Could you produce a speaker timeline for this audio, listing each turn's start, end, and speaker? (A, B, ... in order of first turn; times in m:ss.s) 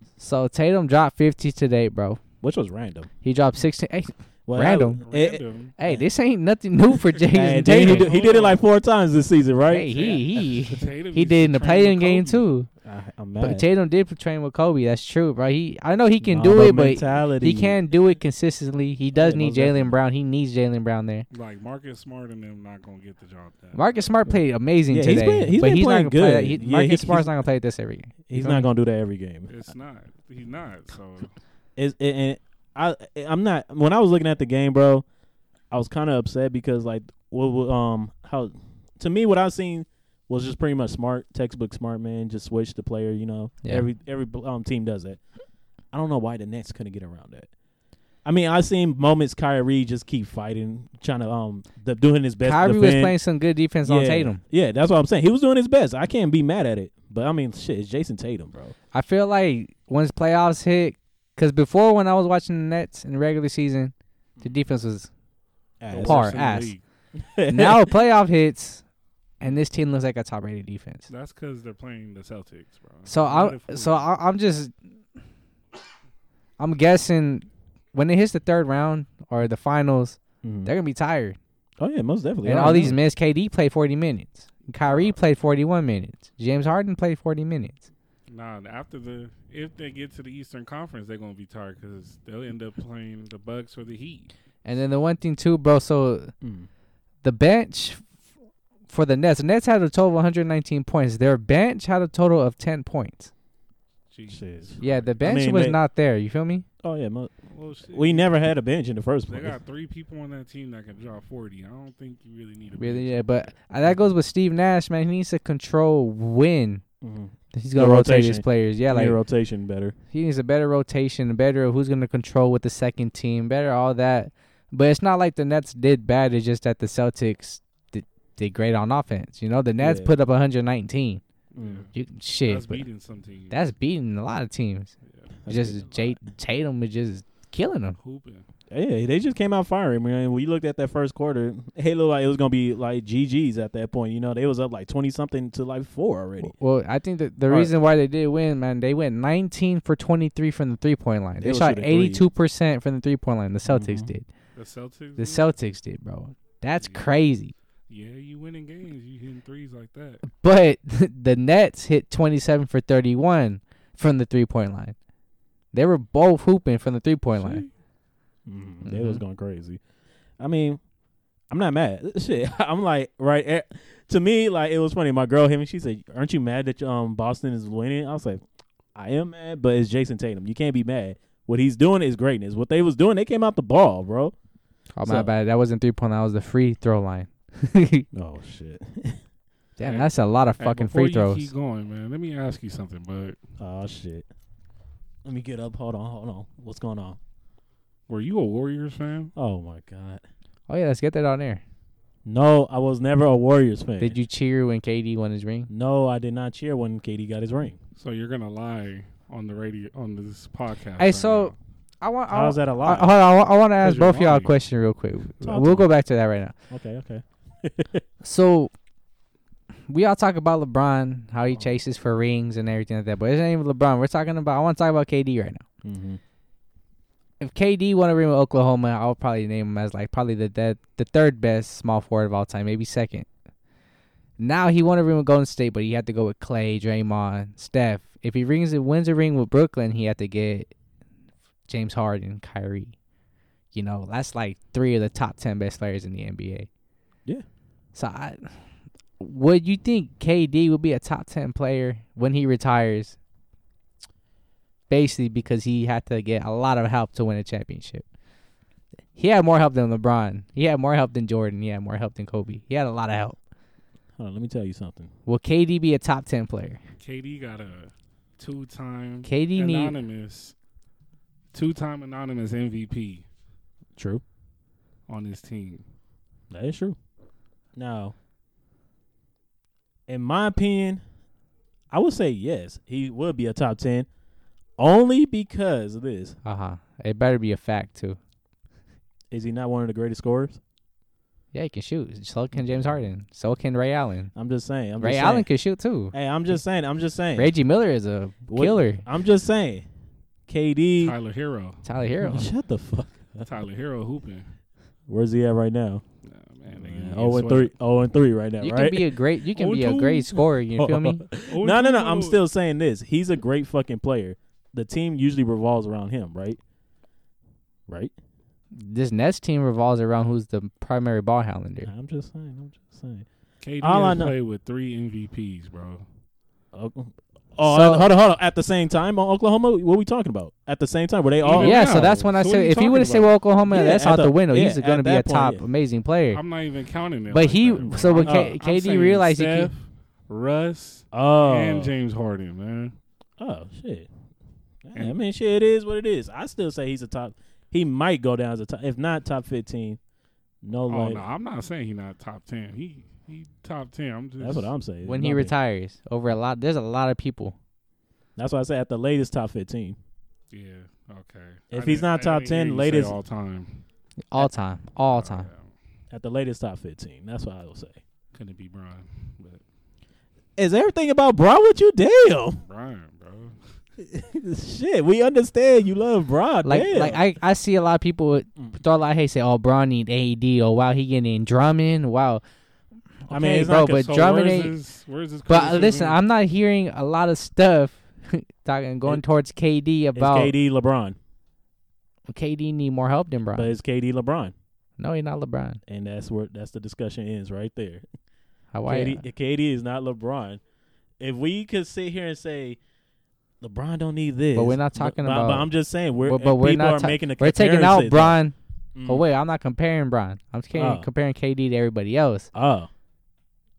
0:00.2-0:02.2 A
0:02.4-0:03.1 B
0:03.2-0:05.0 A
0:04.5-0:06.1 B
0:05.0-0:05.7 C
0:05.8-0:08.1 A
0:07.1-0:10.1 B
0:07.7-0:08.6 C
0:09.7-0:12.7 A
0:09.9-0:12.5 C
0:12.8-0:13.6 B
0:13.4-0:21.2 A
0:16.2-0:17.8 B
0:19.1-0:20.0 B
0:21.3-0:23.8 C
0:23.7-0:28.7 A
0:24.9-0:27.3 B
0:28.3-0:29.5 B
0:29.5-0:31.3 C
0:31.8-0:35.0 B
0:35.7-0:45.2 B
0:45.9-0:47.5 B
0:48.2-0:53.1 B
0:52.4-0:54.4 A
0:53.8-0:58.7 B
0:58.9-1:05.1 A
1:05.8-1:06.4 B
1:05.9-1:06.8 C
1:06.0-1:06.7 A
1:07.2-1:07.9 B
1:07.5-1:08.8 A
1:09.4-1:11.1 A
1:11.1-1:14.0 C
1:13.1-1:14.7 A
1:16.6-1:21.4 A
1:20.4-1:20.7 B
1:21.8-1:23.0 B
1:22.4-1:27.9 A
1:24.9-1:25.1 C
1:28.3-1:34.3 C
1:34.6-1:36.3 A
1:36.4-1:36.7 B
1:37.2-1:38.0 A
1:38.9-1:43.3 A
1:44.1-1:45.1 C
1:44.3-1:45.8 B
1:44.8-1:46.6 A
1:46.8-1:47.3 B
1:47.5-1:48.3 C
1:47.9-1:49.6 B
1:49.3-1:53.5 C
1:52.8-1:56.8 A
1:57.0-1:59.9 B
1:57.5-1:59.2 A
2:00.1-2:11.2 A
2:09.8-2:10.1 B
2:11.5-2:11.9 C
2:11.6-2:11.8 B
2:11.9-2:12.8 A
2:12.4-2:13.6 C
2:13.5-2:14.9 A
2:15.4-2:16.2 B
2:15.5-2:18.0 A
2:18.0-2:18.4 C
2:18.7-2:26.5 B
2:26.4-2:34.3 A
2:27.5-2:27.7 B
2:31.4-2:32.2 B
2:33.6-2:34.1 B
2:34.6-2:35.5 C
2:35.2-2:37.5 A
2:36.8-2:37.0 C
2:37.9-2:40.2 C
2:40.2-2:45.0 A
2:45.7-2:47.6 A
2:47.4-2:47.7 C
2:48.4-2:49.8 B
2:48.8-2:49.2 A
2:50.4-2:50.8 B
2:51.5-2:58.4 B
2:58.9-3:04.3 B
3:05.0-3:08.1 A
3:05.0-3:05.3 B
3:08.1-3:09.2 B
3:09.8-3:11.5 A
3:09.8-3:13.4 C
3:13.6-3:14.3 B
3:15.2-3:17.2 B
3:18.1-3:19.3 C
3:19.4-3:20.2 B
3:20.7-3:21.6 A
3:22.2-3:24.2 B
3:24.0-3:25.7 A
3:25.7-3:27.8 B
3:28.0-3:31.5 C
3:31.0-3:36.5 A
3:32.3-3:33.1 B
3:33.8-3:34.5 C
3:35.4-3:35.9 B
3:36.7-3:38.0 B
3:38.2-3:38.7 A
3:39.9-3:45.6 A
3:45.8-3:46.2 B
3:47.4-3:53.3 A
3:54.4-4:00.7 A
4:01.7-4:02.9 A
4:03.7-4:06.7 A
4:07.9-4:08.5 A
4:09.2-4:13.2 A
4:14.9-4:18.0 A
4:19.1-4:23.4 A
4:24.2-4:25.1 B
4:25.2-4:26.8 A
4:27.0-4:30.5 C
4:29.2-4:29.9 A
4:31.5-4:33.2 C
4:34.0-4:34.2 B
4:35.1-4:35.8 C
4:36.5-4:37.0 B
4:37.8-4:38.1 B
4:40.1-4:41.0 B
4:41.9-4:44.1 B
4:44.8-4:46.4 B
4:46.4-4:48.2 A
4:49.3-4:50.6 B
4:51.5-4:54.3 A
4:54.3-4:55.5 B
4:55.0-4:56.1 A
4:56.1-4:57.5 B
4:57.4-4:59.0 A
4:58.5-4:59.8 B
5:00.5-5:01.1 B
5:01.0-5:01.8 C
5:01.8-5:02.5 A
5:02.2-5:03.5 B
5:03.4-5:04.5 C
5:05.1-5:06.0 B
5:06.2-5:07.7 C
5:06.7-5:09.1 B
5:08.6-5:11.2 A
5:09.5-5:10.4 C
5:10.8-5:16.6 B
5:11.4-5:12.4 C
5:17.9-5:18.1 B
5:18.8-5:21.9 A
5:21.8-5:23.2 B
5:23.6-5:26.0 C
5:23.8-5:24.3 B
5:26.7-5:32.2 B
5:27.6-5:28.1 A
5:31.4-5:33.3 C
5:31.6-5:36.4 A
5:33.6-5:35.6 B
5:36.3-5:42.9 C
5:37.3-5:39.7 A
5:37.8-5:38.5 B
5:41.1-5:41.9 B
5:43.4-5:44.1 B
5:44.8-5:50.0 B
5:50.6-5:51.2 B
5:50.9-5:54.7 C
5:54.4-5:55.5 B
5:55.0-5:57.6 A
5:58.4-6:00.0 B
6:00.5-6:03.8 C
6:01.7-6:03.2 B
6:04.3-6:05.5 A
6:05.0-6:05.7 C
6:06.1-6:08.0 B
6:08.3-6:09.6 C
6:10.6-6:12.6 B
6:12.6-6:13.6 C
6:14.0-6:17.2 B
6:16.6-6:22.4 A
6:23.3-6:24.7 A
6:23.3-6:24.1 B
6:23.8-6:26.2 C
6:25.5-6:30.5 A
6:30.1-6:31.2 B
6:32.3-6:33.7 A
6:33.5-6:34.5 B
6:35.0-6:35.8 A
6:35.9-6:38.0 B
6:38.7-6:39.2 A
6:38.9-6:40.6 B
6:41.2-6:42.8 B
6:43.6-6:48.4 B
6:44.5-6:45.7 A
6:46.2-6:48.5 A
6:48.9-6:49.2 B
6:49.0-6:52.5 A
6:50.7-6:51.1 B
6:52.5-6:52.9 B